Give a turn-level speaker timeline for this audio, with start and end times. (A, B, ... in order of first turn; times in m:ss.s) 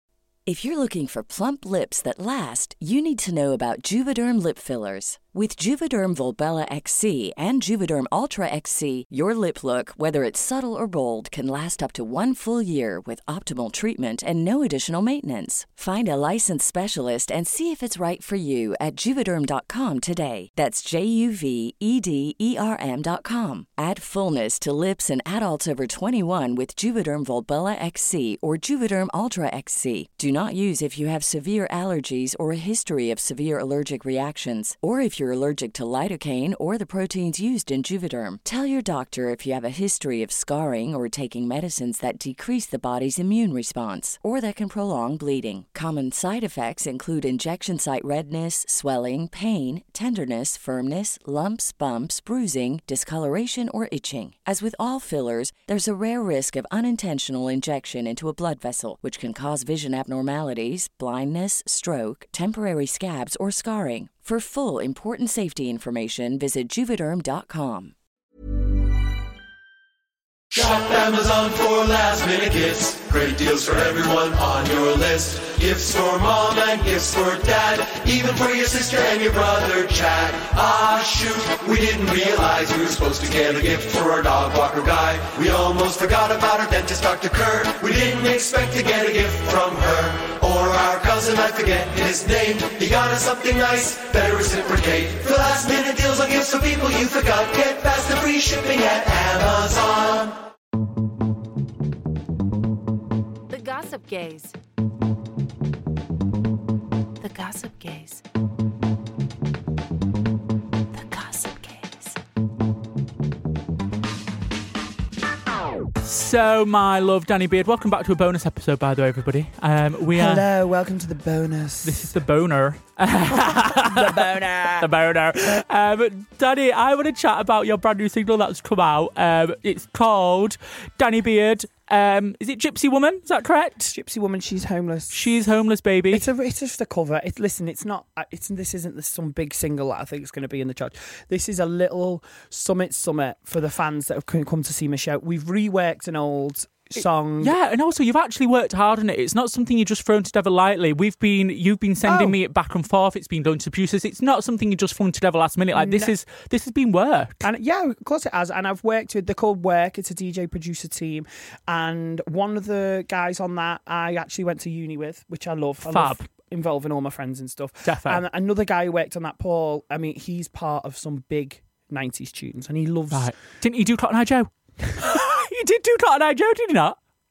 0:00.5-1:07.9 A
1:10.5-1:40.4 B
1:43.5-1:44.6 C
1:47.2-1:48.2 C
1:51.0-1:52.0 C
1:56.0-2:00.4 D
2:00.2-2:02.0 E
2:01.8-2:04.0 D
2:03.6-2:04.9 E
2:04.8-2:13.9 D
2:13.9-2:15.2 E
2:15.1-2:16.2 D
2:16.1-2:27.6 E
2:27.4-2:37.4 D
2:32.0-2:32.4 E
2:35.8-2:36.1 E
2:37.4-2:53.3 E
2:45.8-2:46.2 D
2:47.8-2:48.2 D
2:53.1-2:57.0 D